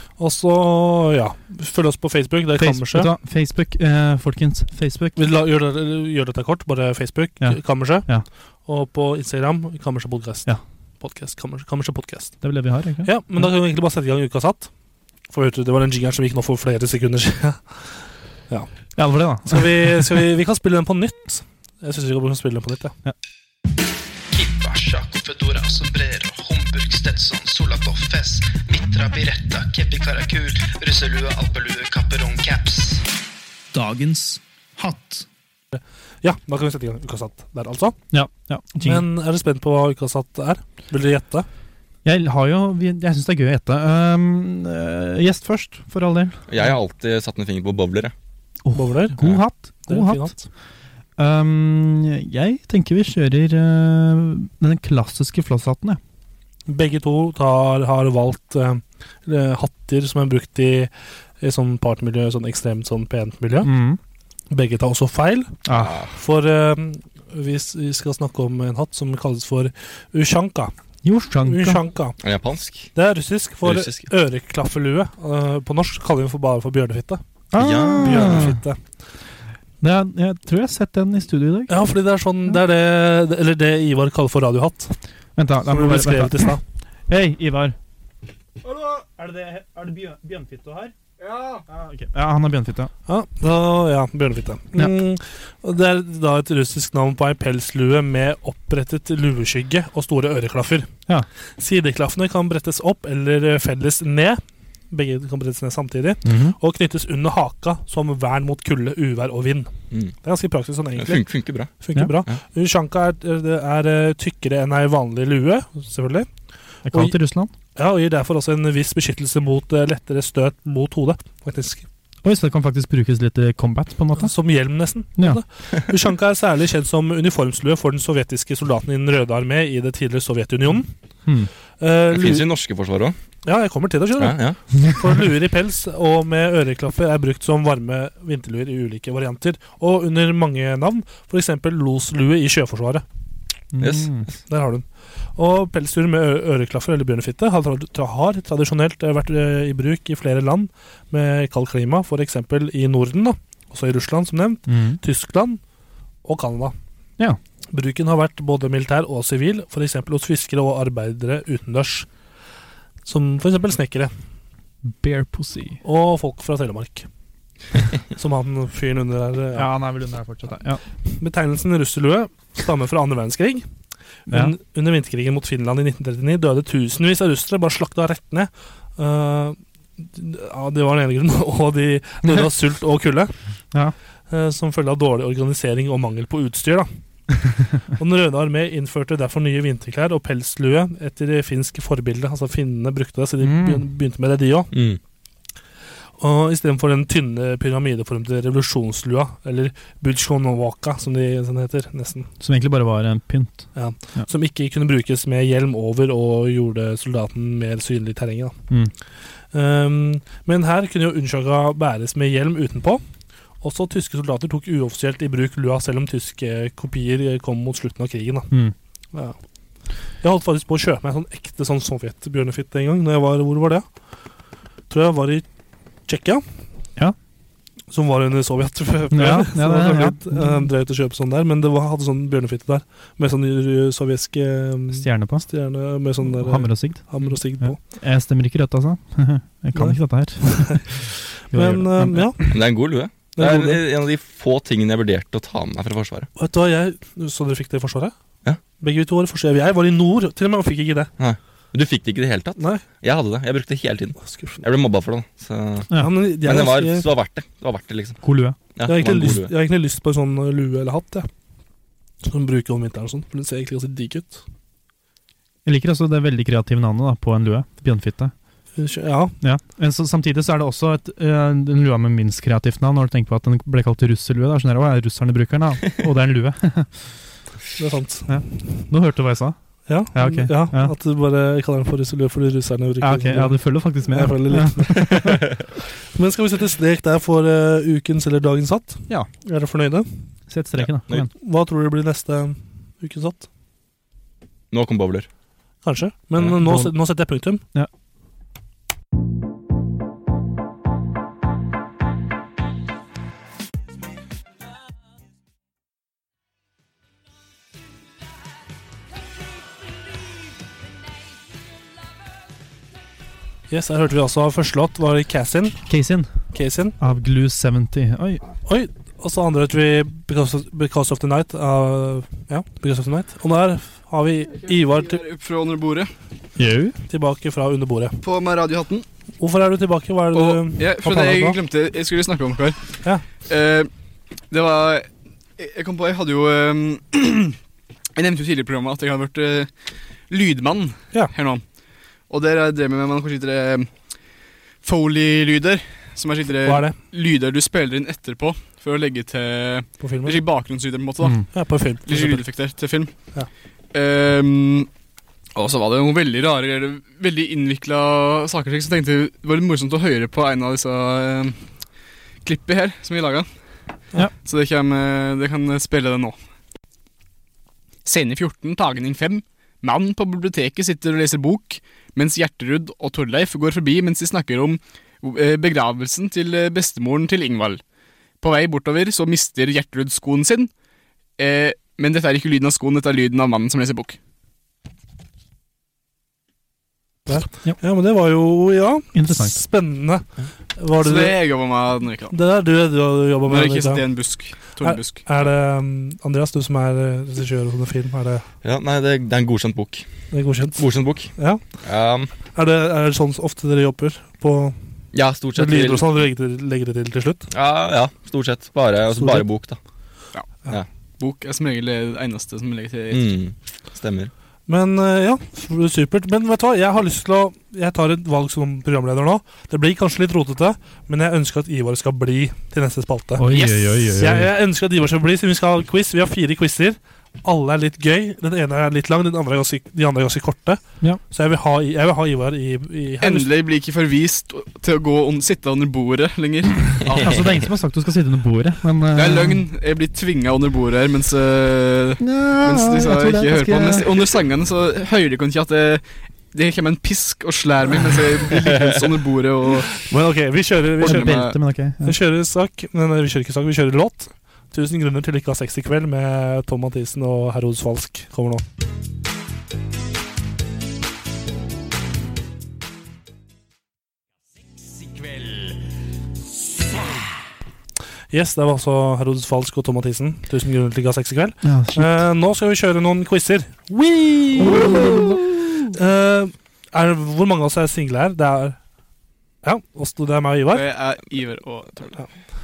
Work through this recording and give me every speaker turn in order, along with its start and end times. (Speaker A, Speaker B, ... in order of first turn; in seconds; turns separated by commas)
Speaker A: 0.2-3.1, Speaker B: 2.6-5.2, Speaker A: 5.2-8.1, Speaker B: 7.4-8.3, Speaker A: 8.7-10.5, Speaker A: 11.0-12.4, Speaker B: 12.4-13.5, Speaker A: 13.0-14.7, Speaker A: 15.3-18.7, Speaker B: 19.0-20.2, Speaker A: 19.4-23.0, Speaker C: 24.3-33.1, Speaker B: 33.7-35.3, Speaker A: 35.7-38.0, Speaker B: 38.1-39.1, Speaker A: 38.9-41.5, Speaker B: 42.0-46.4, Speaker D: 46.5-48.1, Speaker B: 48.6-50.4, Speaker A: 48.8-49.2, Speaker A: 49.9-50.4, Speaker B: 51.2-56.0, Speaker A: 56.7-63.7, Speaker B: 63.6-64.0, Speaker A: 64.5-65.6, Speaker B: 65.7-66.0, Speaker D: 65.7-66.1, Speaker A: 66.1-70.7, Speaker B: 71.0-71.8, Speaker A: 71.4-72.2, Speaker D: 72.2-72.9, Speaker A: 73.0-77.2, Speaker D: 73.6-74.1, Speaker B: 77.5-78.6, Speaker D: 77.6-78.6, Speaker A: 78.0-78.8, Speaker B: 79.8-81.9, Speaker A: 81.7-85.0, Speaker B: 85.4-87.8, Speaker A: 85.7-86.6, Speaker B: 88.6-90.9, Speaker B: 91.6-92.9, Speaker A: 93.1-100.9, Speaker A: 101.6-109.7, Speaker B: 106.2-106.6, Speaker A: 110.2-116.3, Speaker D: 111.0-111.7, Speaker B: 116.9-117.5, Speaker A: 116.9-117.2, Speaker A: 117.8-121.8, Speaker B: 122.2-124.3, Speaker A: 124.2-130.9, Speaker B: 125.2-125.4, Speaker A: 131.8-132.5, Speaker D: 132.1-133.2, Speaker A: 133.4-143.0, Speaker D: 134.2-134.6, Speaker B: 143.7-144.3, Speaker D: 143.8-144.2, Speaker A: 144.5-155.6, Speaker B: 154.7-155.0, Speaker A: 156.2-156.8, Speaker A: 157.7-162.1, Speaker A: 163.1-164.1, Speaker B: 164.8-165.8, Speaker A: 165.8-167.1, Speaker A: 168.1-169.7, Speaker B: 169.6-170.8, Speaker A: 171.1-173.7, Speaker A: 174.3-183.3, Speaker B: 174.3-174.5, Speaker A: 184.3-186.9, Speaker A: 188.0-194.7, Speaker B: 193.4-193.8, Speaker D: 194.7-195.0, Speaker A: 196.2-202.3, Speaker B: 202.4-204.3, Speaker A: 203.8-208.6, Speaker A: 209.5-213.0, Speaker A: 213.6-218.5, Speaker A: 220.2-223.9, Speaker A: 224.9-225.4, Speaker A: 226.1-226.4, Speaker A: 227.9-237.8, Speaker B: 229.1-230.7, Speaker B: 234.9-235.5, Speaker B: 236.2-242.6, Speaker A: 239.8-241.0, Speaker A: 241.5-242.5, Speaker D: 242.5-246.3, Speaker A: 243.4-243.8, Speaker A: 246.4-248.1, Speaker A: 248.8-251.1, Speaker D: 251.2-258.2, Speaker A: 252.6-252.8, Speaker A: 254.3-254.6, Speaker B: 255.9-256.2, Speaker A: 256.0-257.1, Speaker B: 258.2-258.6, Speaker D: 258.8-259.5, Speaker A: 258.9-261.3, Speaker A: 262.2-264.4, Speaker B: 265.6-268.3, Speaker A: 268.8-269.4, Speaker B: 269.4-277.0, Speaker A: 277.8-278.4, Speaker B: 278.3-280.9, Speaker A: 279.9-285.3, Speaker B: 283.0-285.4, Speaker A: 286.1-290.2, Speaker B: 290.5-291.3, Speaker D: 290.8-291.3, Speaker A: 291.4-293.5, Speaker D: 294.7-295.3, Speaker A: 295.9-297.6, Speaker B: 296.6-296.9, Speaker A: 313.7-315.9, Speaker B: 315.9-316.3, Speaker A: 316.5-317.0, Speaker B: 317.0-318.4, Speaker A: 318.6-325.2, Speaker E: 324.6-326.1, Speaker B: 326.6-327.0, Speaker A: 327.1-328.2, Speaker E: 328.2-329.1, Speaker A: 329.4-331.6, Speaker E: 330.3-332.8, Speaker E: 333.4-333.9, Speaker E: 334.5-337.6, Speaker E: 338.2-339.7, Speaker E: 340.3-341.6, Speaker E: 342.3-343.9, Speaker E: 344.8-353.1, Speaker A: 346.6-347.0, Speaker A: 350.0-350.4, Speaker B: 351.2-351.5, Speaker A: 351.5-352.4, Speaker E: 353.9-354.9, Speaker E: 355.6-361.6, Speaker E: 362.4-363.5, Speaker E: 364.4-366.4, Speaker E: 368.1-377.8, Speaker E: 378.4-380.7, Speaker E: 381.4-384.2, Speaker A: 387.3-391.4, Speaker B: 389.1-389.6, Speaker E: 391.0-392.4, Speaker A: 392.3-394.0, Speaker E: 393.5-395.2, Speaker A: 394.8-398.4, Speaker D: 398.6-400.1, Speaker A: 400.3-401.6, Speaker D: 400.8-401.3, Speaker D: 401.8-402.3, Speaker A: 402.5-404.8, Speaker D: 405.1-406.1, Speaker A: 405.6-407.5, Speaker D: 407.5-409.8, Speaker A: 409.2-409.5, Speaker E: 411.2-413.4, Speaker D: 413.1-414.3, Speaker A: 414.7-423.5, Speaker B: 423.4-424.5, Speaker E: 423.5-424.1, Speaker A: 424.2-433.5, Speaker E: 433.2-437.4, Speaker D: 437.1-437.4, Speaker B: 437.1-439.6, Speaker E: 439.1-450.0, Speaker B: 442.2-444.3, Speaker A: 450.0-451.4, Speaker B: 451.0-452.2, Speaker E: 451.0-451.6, Speaker A: 452.0-458.6, Speaker A: 468.3-478.8, Speaker B: 471.6-472.2, Speaker B: 474.6-475.9, Speaker A: 479.6-480.8, Speaker E: 480.7-482.3